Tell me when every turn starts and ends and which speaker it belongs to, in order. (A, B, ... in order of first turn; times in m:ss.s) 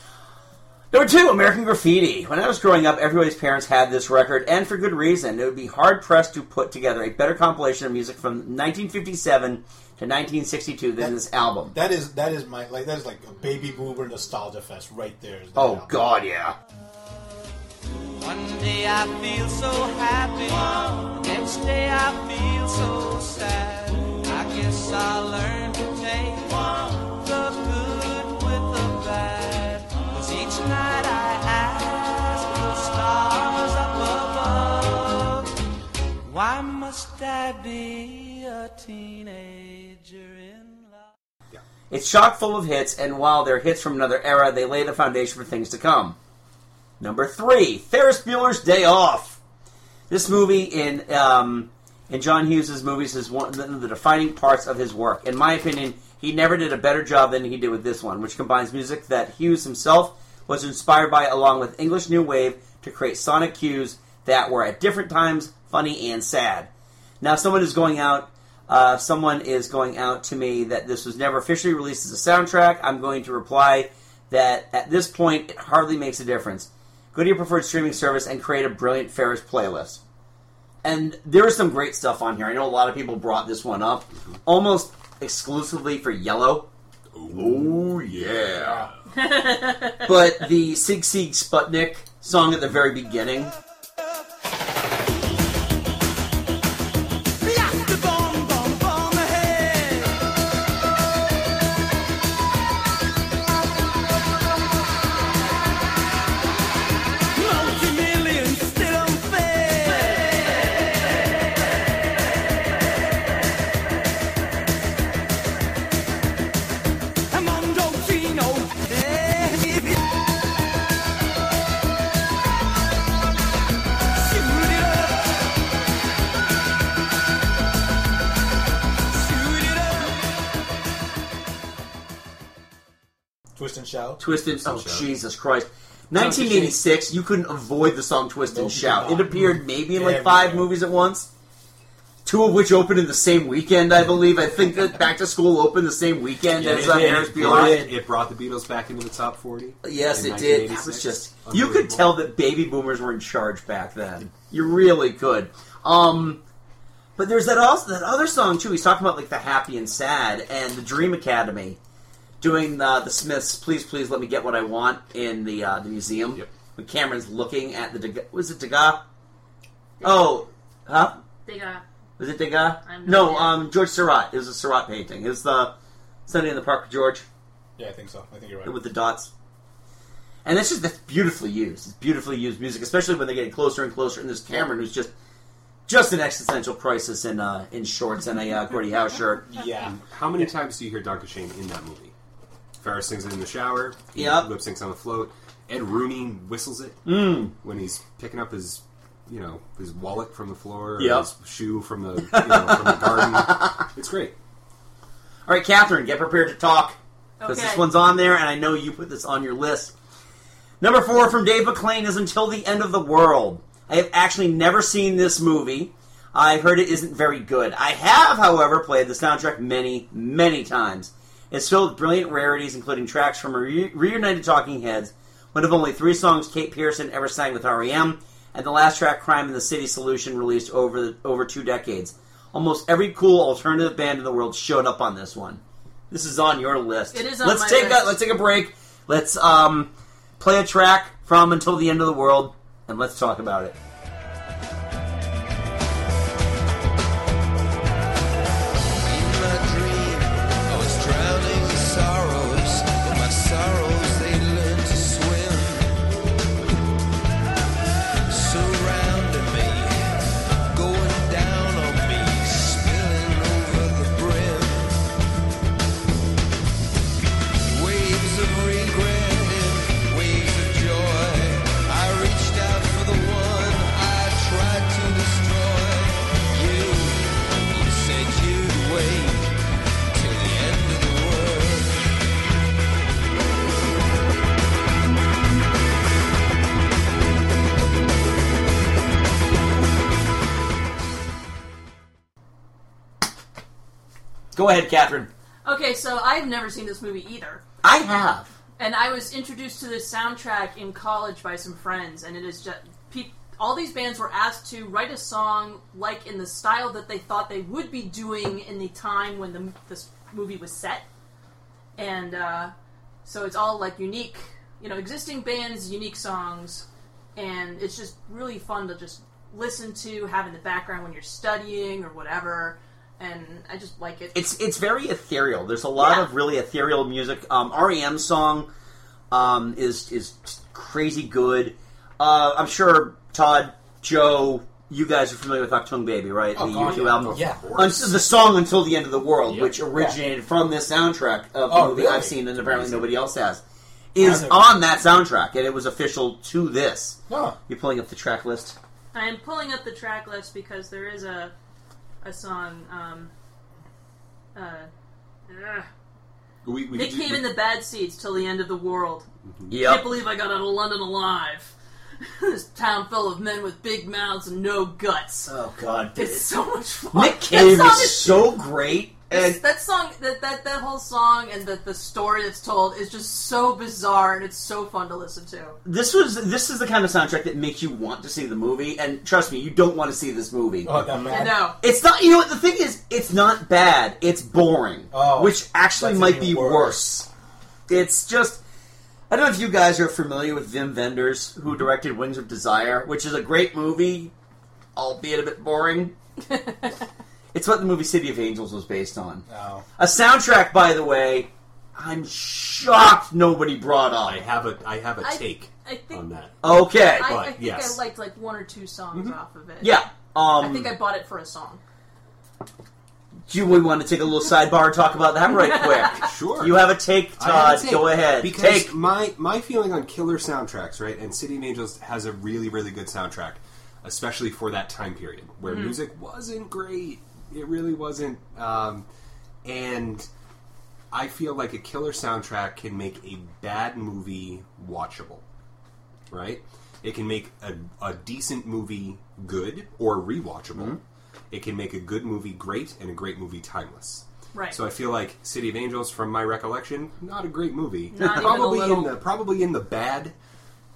0:00.9-0:11.8 A
0:11.7-0:15.9 B
0:15.6-0:16.6 A
0:18.2-0:35.5 C
0:36.3-0:41.1 C
0:41.9-0:46.2 A
0:47.0-0:49.4 A
0:50.1-1:06.7 A
1:07.2-1:20.0 A
1:20.8-1:26.7 A
1:27.1-1:28.9 D
1:27.3-1:28.8 A
1:29.2-1:30.3 E
1:30.0-1:33.6 A
1:37.7-1:39.4 F
1:47.4-1:50.1 F
2:09.4-2:09.7 C
2:13.6-2:14.2 B
2:14.2-2:21.3 A
2:14.3-2:15.1 D
2:16.2-2:16.7 B
2:18.5-2:20.7 B
2:22.2-2:27.9 A
2:26.6-2:27.9 B
2:26.6-2:32.1 D
2:29.8-2:36.4 A
2:37.2-2:41.8 A
2:42.4-2:49.0 A
2:50.0-2:50.4 E
2:50.0-2:51.2 A
2:51.4-2:51.8 E
2:52.2-2:55.7 A
2:52.8-2:53.6 E
2:56.3-2:57.2 A
2:57.8-2:58.8 B
2:58.6-2:59.3 A
3:00.4-3:05.1 A
3:05.9-3:09.5 A
3:09.5-3:10.0 B
3:09.8-3:12.1 D
3:12.8-3:17.0 D
3:14.2-3:14.5 A
3:17.1-3:17.5 A
3:17.6-3:24.4 D
3:21.0-3:21.3 A
3:22.3-3:23.8 A
3:25.5-3:29.9 A
3:27.4-3:27.8 E
3:30.8-4:03.8 A
3:57.1-3:58.2 E
4:09.0-4:15.9 F
4:18.3-4:20.0 F
4:20.7-4:25.0 F
4:27.7-4:39.5 F
4:40.1-4:42.0 F
4:54.5-4:55.3 A
4:55.6-4:57.6 E
4:57.8-4:58.5 A
4:58.8-5:11.1 E
5:12.0-5:12.7 E
5:13.2-5:24.4 E
5:24.3-5:28.7 A
5:26.0-5:26.3 E
5:29.3-5:43.6 A
5:36.6-5:38.0 B
5:37.1-5:38.1 D
5:39.5-5:39.8 D
5:41.7-5:42.4 B
5:44.1-5:48.8 A
5:44.2-5:44.6 B
5:47.3-5:47.6 B
5:49.1-5:51.5 E
5:52.2-5:53.3 E
5:54.6-5:54.9 E
5:55.5-5:55.9 E
5:56.6-5:57.5 D
5:56.9-5:59.3 E
5:59.5-5:59.7 D
5:59.7-6:00.1 A
5:59.8-6:05.5 E
6:05.5-6:06.5 A
6:06.2-6:08.5 E
6:07.1-6:09.6 A
6:09.3-6:15.8 E
6:15.8-6:21.2 A
6:20.8-6:21.7 B
6:21.3-6:21.8 E
6:21.8-6:27.3 A
6:25.1-6:27.1 B
6:27.9-6:28.6 A
6:29.3-6:34.3 A
6:35.0-6:36.2 A
6:36.5-6:36.9 E
6:37.5-6:39.4 A
6:39.5-6:39.8 B
6:40.0-6:44.4 A
6:44.2-6:48.0 D
6:45.2-6:50.0 E
6:46.6-6:47.3 A
6:49.1-6:49.4 D
6:49.8-6:51.0 A
6:50.6-6:51.8 E
6:53.5-6:58.9 A
6:55.5-6:56.3 E
6:56.3-7:09.1 D
7:05.7-7:06.0 E
7:09.6-7:10.3 D
7:11.1-7:15.4 D
7:16.3-7:21.0 D
7:21.5-7:30.4 D
7:24.5-7:24.8 E
7:28.1-7:29.2 E
7:28.2-7:28.7 A